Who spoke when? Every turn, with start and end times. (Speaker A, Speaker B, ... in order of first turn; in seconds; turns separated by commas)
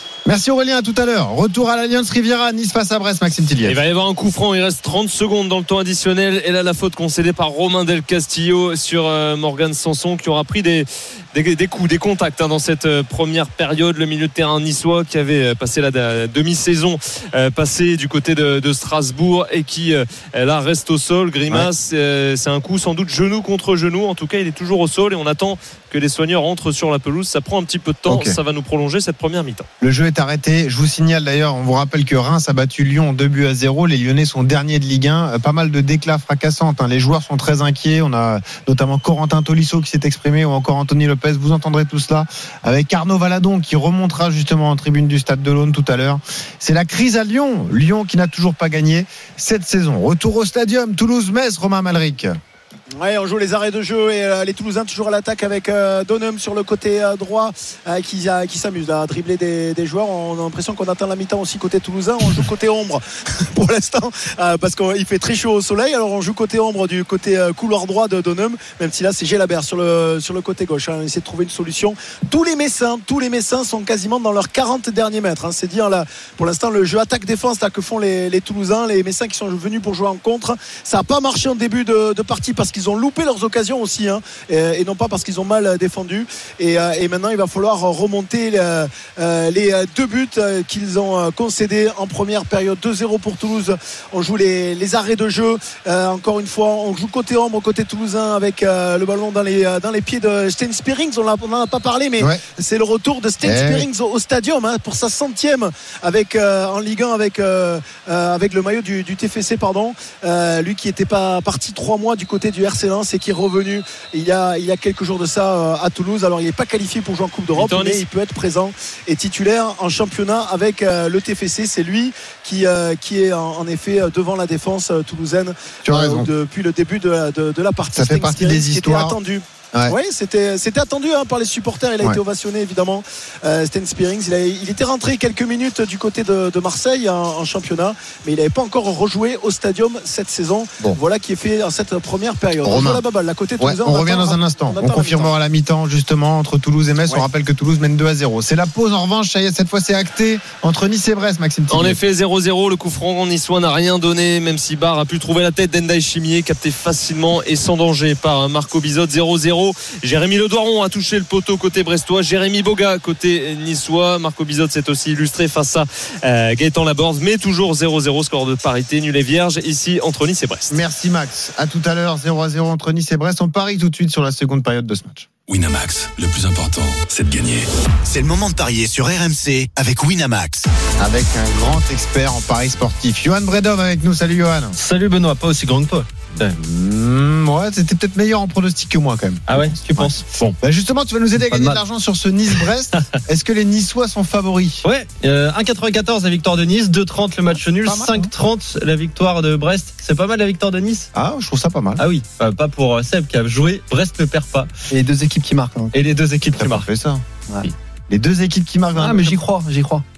Speaker A: 0.2-3.8, Speaker B: 3.6-29.6, Speaker A: 28.1-28.3, Speaker A: 29.8-52.4, Speaker C: 53.0-145.3, Speaker A: 103.4-103.9, Speaker B: 117.5-118.0, Speaker A: 125.8-126.3, Speaker A: 128.0-129.2, Speaker A: 142.6-143.0, Speaker A: 143.6-152.0, Speaker B: 151.7-170.8, Speaker A: 170.7-175.3, Speaker D: 175.5-177.7, Speaker E: 178.0-180.7, Speaker A: 181.0-184.8, Speaker F: 184.8-186.6, Speaker A: 186.4-194.8, Speaker F: 189.5-190.6, Speaker G: 191.4-191.8, Speaker F: 194.8-201.1, Speaker A: 197.7-198.3, Speaker A: 201.1-202.0, Speaker F: 202.0-204.7, Speaker G: 204.9-206.0, Speaker F: 205.9-206.9, Speaker A: 206.5-207.2, Speaker A: 208.1-209.4, Speaker G: 208.9-210.0